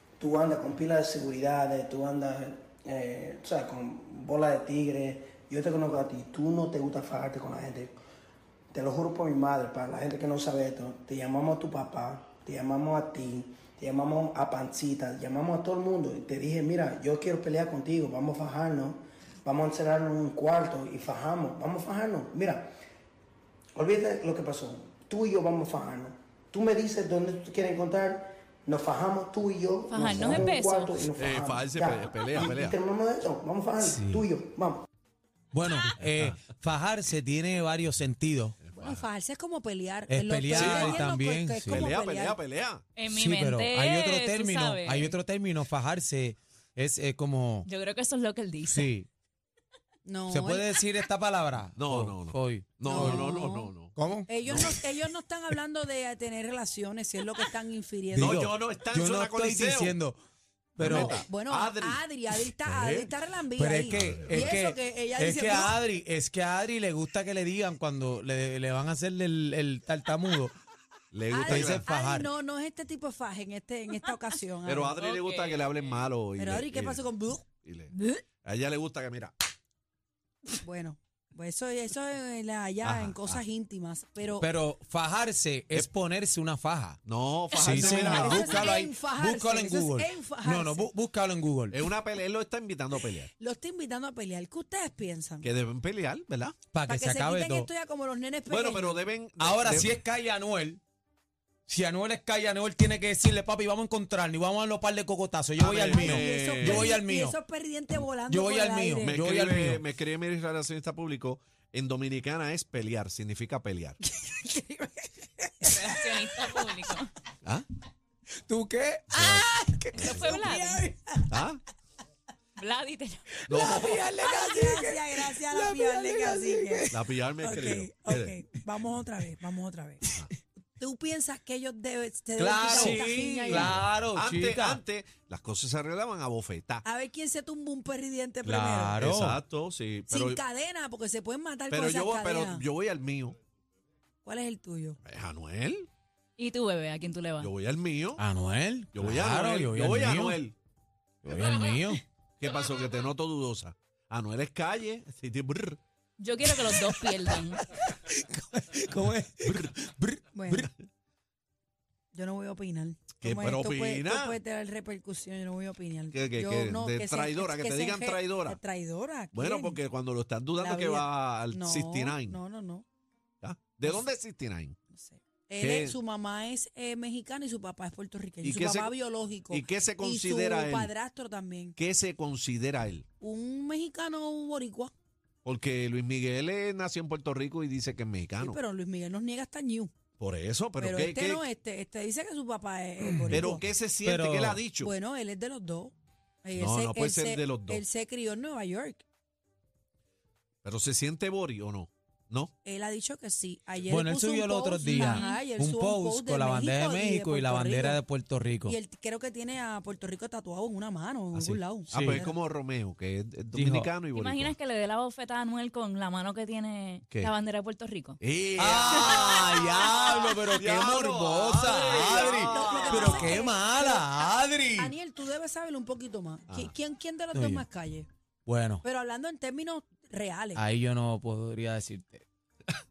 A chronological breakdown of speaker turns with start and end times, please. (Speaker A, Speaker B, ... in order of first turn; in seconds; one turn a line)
Speaker A: 0.2-8.0
Speaker A: 8.7-22.7
Speaker A: 23.7-34.8
Speaker B: 29.9-31.0
Speaker C: 31.1-32.8
Speaker D: 33.8-34.3
Speaker D: 35.5-38.6
Speaker C: 36.0-36.4
Speaker C: 38.6-39.0
Speaker E: 38.7-42.4
Speaker D: 40.1-41.9
Speaker C: 40.5-41.1
Speaker C: 41.6-42.8
Speaker B: 43.0-45.2
Speaker D: 43.1-47.7
Speaker B: 47.6-48.9
Speaker D: 48.7-49.1
Speaker E: 50.0-50.7
Speaker D: 50.3-53.4
Speaker C: 51.7-53.9
Speaker E: 52.8-53.7
Speaker D: 53.9-54.7
Speaker E: 54.3-58.5
Speaker C: 54.5-54.7
Speaker C: 58.1-60.0
Speaker D: 58.1-60.2
Speaker D: 60.8-61.2
Speaker C: 60.8-63.1
Speaker E: 60.8-65.8
Speaker D: 63.6-70.5
Speaker C: 63.9-64.5
Speaker C: 71.1-71.8
Speaker E: 71.3-75.0
Speaker D: 71.4-72.3
Speaker C: 74.6-77.0
Speaker B: 75.0-75.8
Speaker E: 76.4-77.4
Speaker C: 77.6-79.3
Speaker B: 78.0-78.2
Speaker E: 80.6-84.5
Speaker C: 82.8-83.4
Speaker D: 84.4-87.0
Speaker C: 87.0-88.6
Speaker B: 87.5-88.4
Speaker D: 87.5-91.8
Speaker E: 87.8-90.9
Speaker C: 91.7-93.3
Speaker E: 93.4-95.5
Speaker C: 95.4-96.5
Speaker D: 96.7-97.7
Speaker E: 96.9-99.0
Speaker C: 98.5-100.0
Speaker D: 99.4-100.8
Speaker D: 101.7-107.4
Speaker C: 105.6-106.9
Speaker E: 105.8-109.2
Speaker D: 108.3-109.8
Speaker C: 109.0-114.0
Speaker E: 114.2-115.7
Speaker B: 115.6-117.1
Speaker D: 118.5-120.5
Speaker C: 119.2-119.4
Speaker B: 119.9-120.9
Speaker E: 120.0-121.3
Speaker C: 121.3-121.6
Speaker B: 122.6-123.2
Speaker D: 123.5-127.0
Speaker C: 123.5-124.0
Speaker E: 123.5-126.9
Speaker C: 126.9-128.4
Speaker E: 127.4-130.0
Speaker E: 130.8-133.8
Speaker D: 132.4-134.8
Speaker C: 132.9-136.8
Speaker E: 136.8-139.0
Speaker D: 138.4-139.4
Speaker C: 139.0-140.4
Speaker E: 140.1-142.6
Speaker C: 141.7-143.4
Speaker E: 144.2-145.0
Speaker C: 145.0-145.9
Speaker B: 146.4-147.5
Speaker C: 147.4-148.2
Speaker D: 148.2-150.4
Speaker C: 148.9-150.5
Speaker D: 151.2-152.0
Speaker C: 152.4-155.8
Speaker B: 156.2-157.6
Speaker D: 156.7-156.9
Speaker D: 157.7-160.7
Speaker C: 159.4-159.7
Speaker E: 160.3-160.7
Speaker E: 162.1-169.8
Speaker C: 163.2-164.4
Speaker C: 166.1-168.6
Speaker C: 169.3-172.4
Speaker E: 170.6-172.8
Speaker C: 173.4-174.8
Speaker E: 174.9-181.8
Speaker C: 175.6-176.0
Speaker C: 178.4-178.9
Speaker C: 179.5-180.9
Speaker C: 181.8-183.0
Speaker E: 183.2-184.9
Speaker C: 185.4-188.6
Speaker E: 188.4-189.9
Speaker C: 190.2-191.4
Speaker E: 190.8-193.6
Speaker D: 193.1-193.5
Speaker C: 193.3-194.9
Speaker D: 194.0-194.6
Speaker E: 194.8-199.0
Speaker C: 196.5-197.8
Speaker C: 200.6-202.5
Speaker E: 202.6-208.0
Speaker D: 203.9-208.8
Speaker B: 204.9-205.4
Speaker E: 208.7-212.4
Speaker D: 211.3-212.2
Speaker C: 211.9-214.5
Speaker D: 213.5-213.9
Speaker B: 214.1-218.2
Speaker C: 218.2-220.0
Speaker D: 218.6-224.9
Speaker C: 220.5-223.1
Speaker E: 221.9-224.2
Speaker E: 224.7-228.1
Speaker C: 226.5-226.7
Speaker D: 227.3-227.6
Speaker D: 228.4-228.8
Speaker E: 228.8-230.6
Speaker D: 230.5-232.2